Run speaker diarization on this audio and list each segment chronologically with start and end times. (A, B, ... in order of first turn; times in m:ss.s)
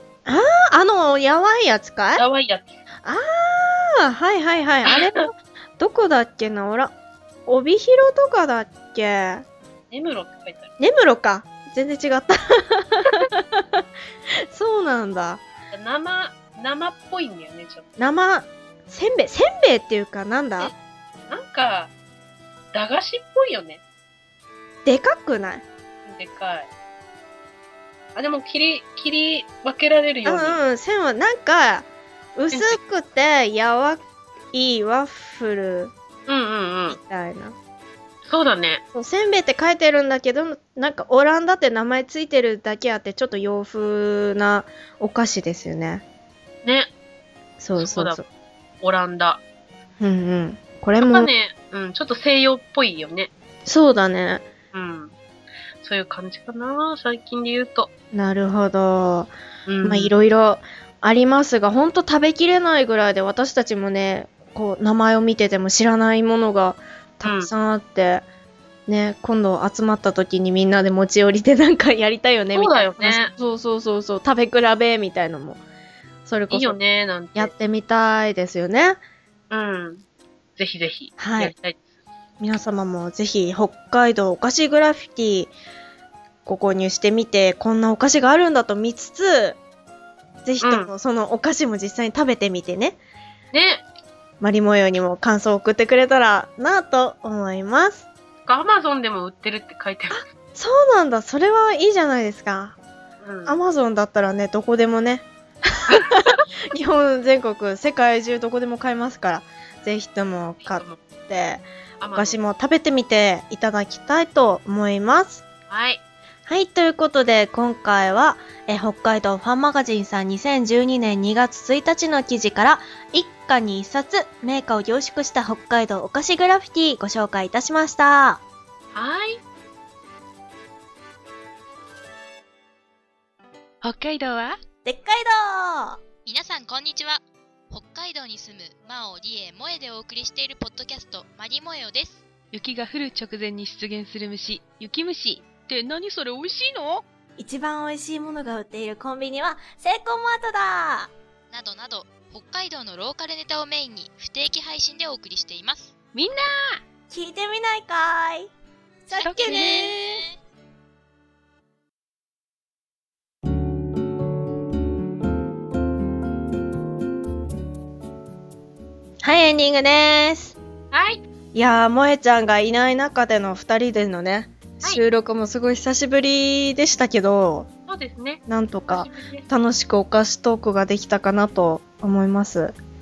0:00.3-0:02.2 A
0:02.2-0:02.8 B
0:03.0-0:06.9 A
0:04.9-0:05.3 B
0:07.5-0:09.4 A
0:09.9-0:10.7 B
0:10.8-0:13.8 A
0:14.5-0:15.4 A
0:15.7-0:17.9 B
0:18.0-0:20.7 A
0:21.3-0:21.9 B
0:22.7-0:23.8 B
0:24.8-0:25.6 A
0:26.0-0:26.7 B
0:28.2-0:30.6 B
0:30.2-0:35.9 A
0:32.5-0:32.8 B
0:36.3-0:37.0 B
0:36.9-0:37.6 A
0:38.2-0:38.8 B
0:38.9-0:46.0 A
0:46.6-0:46.9 B
0:47.6-0:48.2 A
0:47.8-0:48.2 B
0:48.8-0:49.4 B
0:50.0-0:51.3 A
0:51.0-0:53.3 B
0:53.7-0:54.5 A
0:54.7-0:55.2 B
0:55.8-0:57.9 B
0:58.1-0:59.3 A
0:59.7-1:00.1 B
0:59.8-1:08.2 A
1:07.2-1:07.5 B
1:08.9-1:15.6 A
1:12.5-1:13.3 B
1:16.3-1:16.8 A
1:16.5-1:17.5 B
1:17.4-1:19.0 A
1:19.5-1:20.0 B
1:20.6-1:21.8 B
1:21.2-1:21.5 A
1:22.4-1:25.5 A
1:26.5-1:29.6 A
1:30.4-1:33.0 A
1:30.6-1:30.9 B
1:33.5-1:33.8 B
1:34.4-1:38.1 A
1:38.5-1:40.3 B
1:40.1-1:42.8 A
1:43.2-1:43.6 B
1:43.5-1:55.4 A
1:45.9-1:46.4 B
1:50.6-1:51.0 B
1:52.0-1:52.4 B
1:55.7-1:56.0 B
1:56.5-2:08.4 A
2:08.9-2:09.4 B
2:13.8-2:14.6 C
2:14.8-2:16.0 A
2:16.2-2:22.2 D
2:22.5-2:27.0 C
2:27.4-2:31.1 A
2:31.5-2:35.9 D
2:36.2-2:36.8 C
2:37.1-2:38.5 A
2:39.1-2:40.0 A
2:39.1-2:39.9 D
2:39.2-2:39.9 C
2:49.2-2:50.6 A
2:50.9-2:51.2 B
2:51.5-2:57.7 A
2:57.9-2:59.5 B
2:58.5-3:02.7 A